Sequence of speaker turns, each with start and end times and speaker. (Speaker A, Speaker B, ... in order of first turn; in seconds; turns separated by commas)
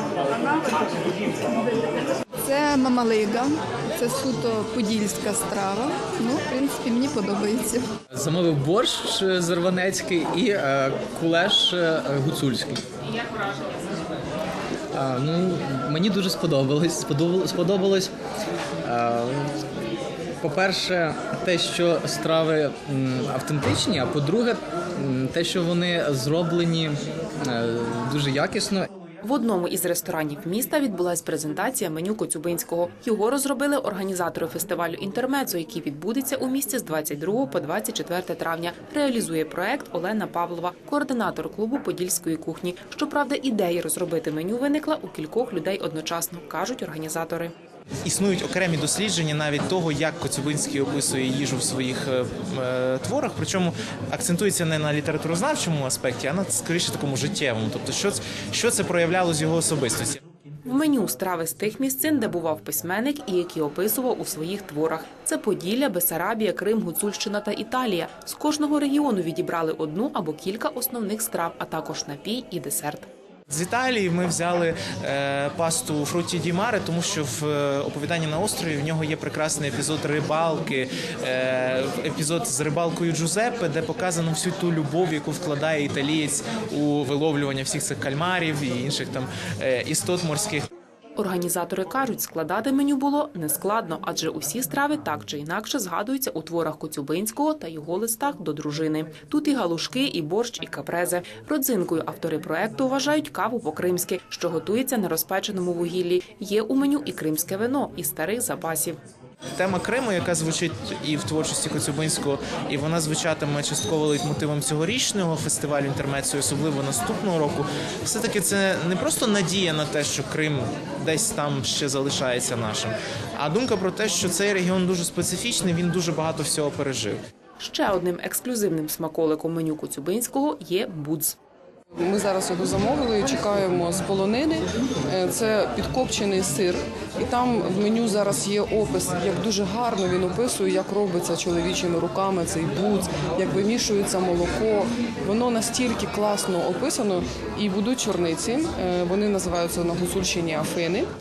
Speaker A: 0.3-0.8, Speaker A: 2.4-7.9, Speaker B: 8.1-12.8, Speaker B: 14.9-18.1, Speaker B: 18.8-19.6, Speaker B: 20.4-28.9, Speaker C: 29.2-47.5, Speaker D: 48.0-60.2, Speaker C: 60.6-73.1, Speaker D: 73.5-90.7, Speaker C: 91.2-109.0, Speaker D: 109.6-127.2, Speaker C: 127.6-131.3, Speaker E: 132.0-151.1